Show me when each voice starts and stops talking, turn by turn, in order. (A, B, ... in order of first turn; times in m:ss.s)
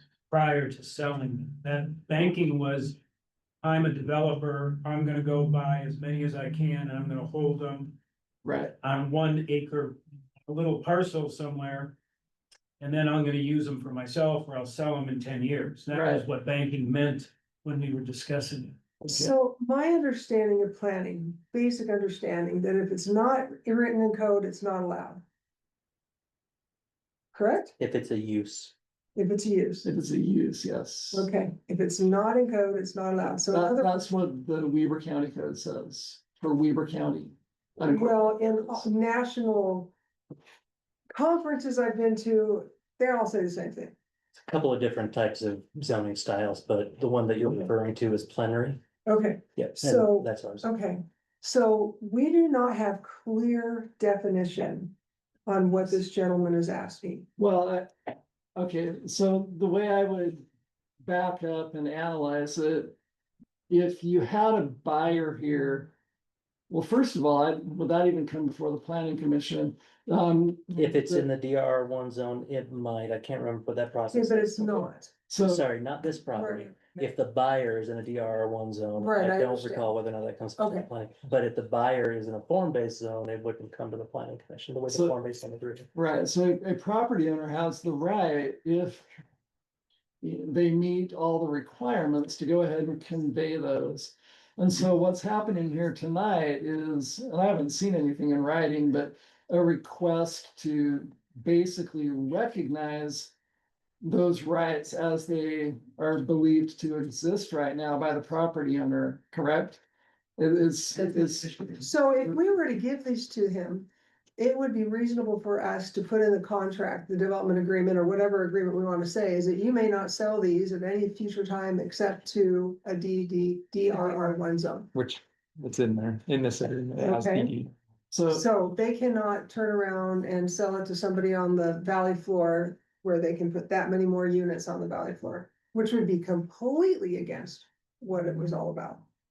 0:00.3-0:03.0 A
0:03.6-0:08.0 A
0:08.4-0:08.8 B
0:08.8-0:12.0 A
0:12.8-0:18.8 A
0:15.9-0:16.3 B
0:19.0-0:19.3 B
0:19.1-0:25.2 C
0:27.3-0:27.8 C
0:27.8-0:28.7 D
0:29.2-0:29.9 C
0:29.8-0:31.3 B
0:31.1-0:33.9 C
0:33.5-0:38.7 B
0:37.9-0:39.9 C
0:41.1-0:44.0 C
0:44.4-0:48.8 D
0:49.1-0:55.0 C
0:49.6-0:50.7 D
0:55.5-0:57.3 C
0:57.4-1:00.5 B
1:01.0-1:03.0 B
1:03.7-1:05.9 B
1:06.7-1:11.3 B
1:10.8-1:14.9 D
1:14.1-1:15.1 C
1:15.3-1:15.6 B
1:15.4-1:25.9 D
1:16.3-1:17.1 C
1:19.0-1:19.9 C
1:20.6-1:20.9 C
1:24.9-1:25.2 B
1:26.0-1:29.1 B
1:30.2-1:43.3 B
1:44.0-1:49.8 B
1:50.4-1:51.8 B
1:51.8-2:04.9 C
2:04.9-2:07.7 E
2:07.0-2:07.5 C
2:08.1-2:08.4 B
2:08.3-2:19.0 C